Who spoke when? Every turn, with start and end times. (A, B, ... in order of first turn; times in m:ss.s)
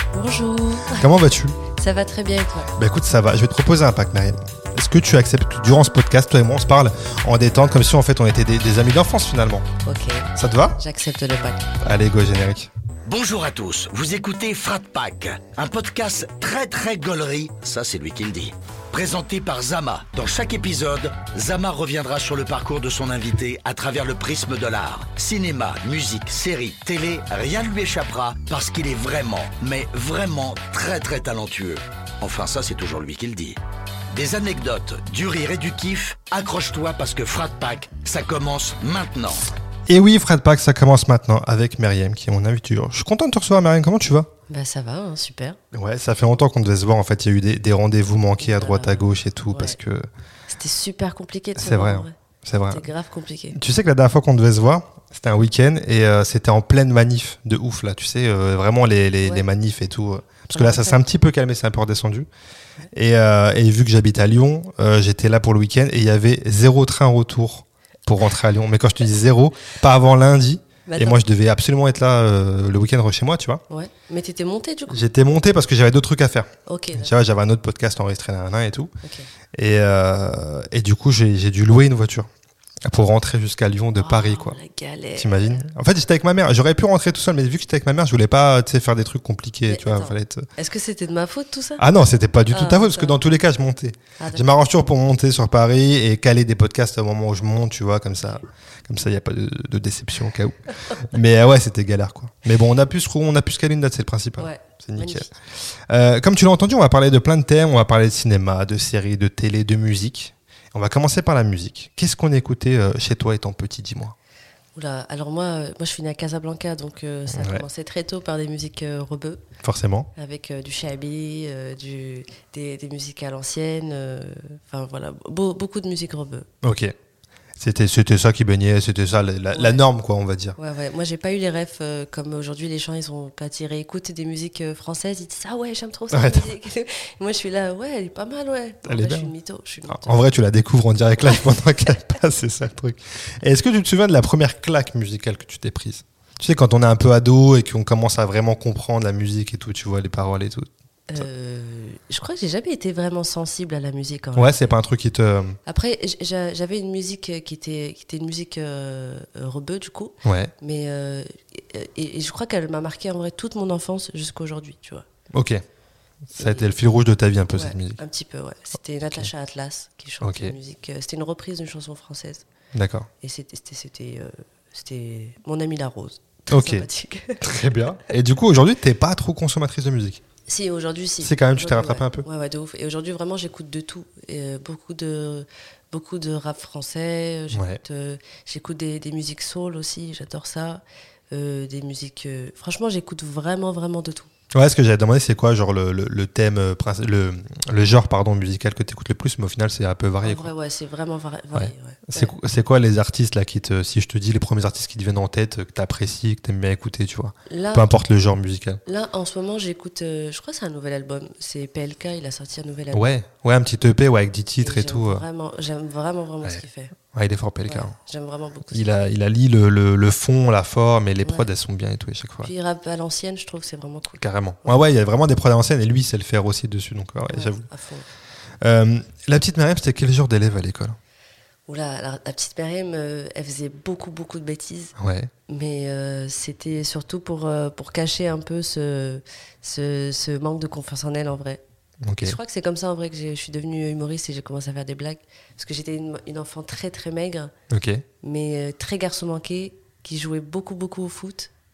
0:00.1-0:01.1 A
0:01.0-0:01.6 B
0:01.7-0:02.7 A
0:02.8-0:09.6 B
0:09.8-0:11.7 A
0:10.4-0:10.8 B
0:11.8-0:12.7 B
0:13.0-0:33.6 C
0:34.1-0:39.4 C
0:39.9-0:44.3 B
0:44.5-0:45.6 A
0:45.7-0:50.1 B
0:48.4-0:49.8 A
0:50.5-0:52.1 A
0:51.6-0:52.9 B
0:52.7-0:53.6 A
0:53.5-1:02.3 B
1:00.5-1:01.0 A
1:02.9-1:13.6 B
1:10.8-1:11.2 A
1:13.7-1:15.0 A
1:14.9-1:18.9 B
1:16.6-1:17.1 A
1:19.0-1:19.3 A
1:19.5-1:22.3 B
1:22.8-1:24.6 B
1:24.0-1:25.6 A
1:25.2-1:30.4 B
1:29.7-1:31.8 A
1:31.8-1:45.3 B
1:32.5-1:33.2 A
1:34.2-1:34.5 A
1:44.4-1:45.3 A
1:45.9-1:54.1 B
1:54.7-1:59.4 A
1:57.3-1:57.6 B
1:59.6-2:00.1 B
2:00.1-2:06.5 A
2:06.6-2:06.9 B
2:07.6-2:10.6 B
2:09.5-2:09.8 A
2:10.6-2:20.2 A
2:16.1-2:16.5 B
2:18.8-2:19.3 B
2:19.9-2:31.2 B
2:31.1-2:34.7 A
2:34.3-2:35.6 B
2:35.6-2:45.0 A
2:40.2-2:40.5 B
2:45.3-2:45.6 B
2:46.3-2:48.0 B
2:46.4-2:46.7 A
2:47.5-2:52.4 A
2:50.2-2:50.5 B
2:52.7-2:53.1 B
2:53.2-2:57.6 A
2:56.5-2:56.8 B
2:57.4-3:00.2 B
3:00.5-3:14.3 A
3:01.2-3:02.2 B
3:07.5-3:07.8 B
3:14.5-3:20.5 B
3:20.2-3:22.3 A
3:21.5-3:28.8 B
3:27.5-3:27.9 A
3:28.8-3:33.2 A
3:32.9-3:35.2 B
3:34.6-3:36.9 A
3:37.1-3:37.9 B
3:37.6-3:38.9 A
3:38.7-3:42.5 B
3:41.2-3:41.5 A
3:42.4-3:44.8 A
3:44.2-3:47.6 B
3:47.3-3:48.0 A
3:48.6-3:51.0 B
3:51.7-3:54.9 A
3:55.0-3:55.3 B
3:55.5-4:01.6 A
4:02.0-4:02.4 B
4:02.2-4:07.5 A
4:07.7-4:08.0 B
4:08.2-4:11.5 A